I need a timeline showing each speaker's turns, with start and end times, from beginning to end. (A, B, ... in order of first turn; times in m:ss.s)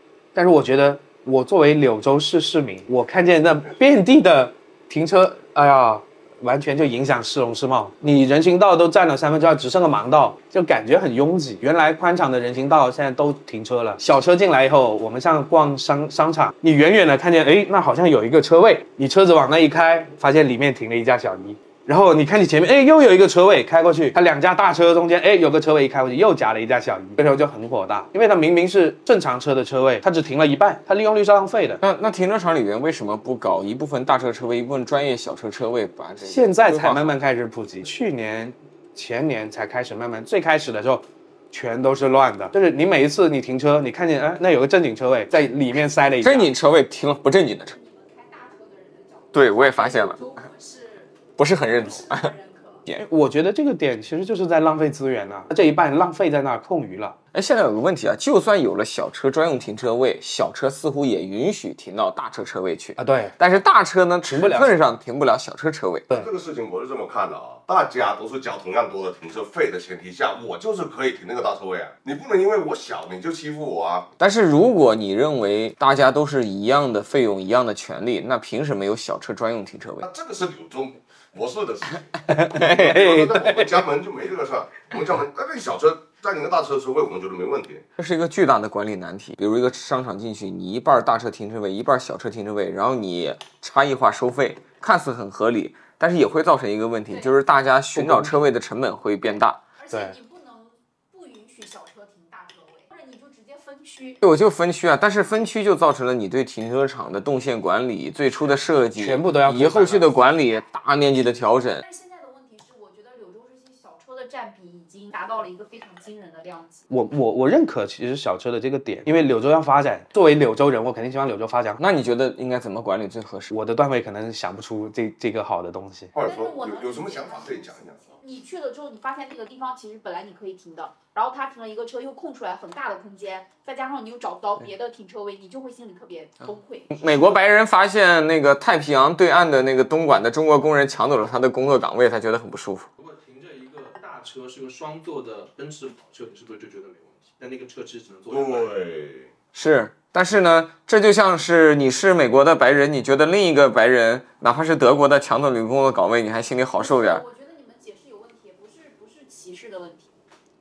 0:00.3-0:31.8 A
0:31.8-0:37.1 B
0:36.2-0:46.5 A
0:46.2-0:47.7 B
0:47.7-0:52.8 C
0:49.3-0:50.2 B
0:51.4-0:52.3 B
0:52.9-0:57.2 A
0:57.3-1:06.1 B
1:03.0-1:03.4 A
1:04.2-1:04.8 A
1:06.1-1:14.1 D
1:14.2-1:20.1 B
1:20.0-1:27.8 D
1:22.5-1:23.5 B
1:23.0-1:23.3 A
1:28.0-1:39.6 B
1:37.9-1:38.3 A
1:39.8-1:44.2 C
1:39.9-1:40.2 A
1:44.2-1:51.8 B
1:48.9-1:50.1 A
1:51.8-1:56.9 C
1:56.9-2:01.8 A
2:01.8-2:03.5 B
2:03.5-2:06.1 A
2:06.1-2:08.2 D
2:06.2-2:17.0 C
2:16.9-2:22.9 B
2:23.0-2:28.8 E
2:28.3-2:29.3 D
2:29.5-2:37.2 B
2:36.7-2:40.1 C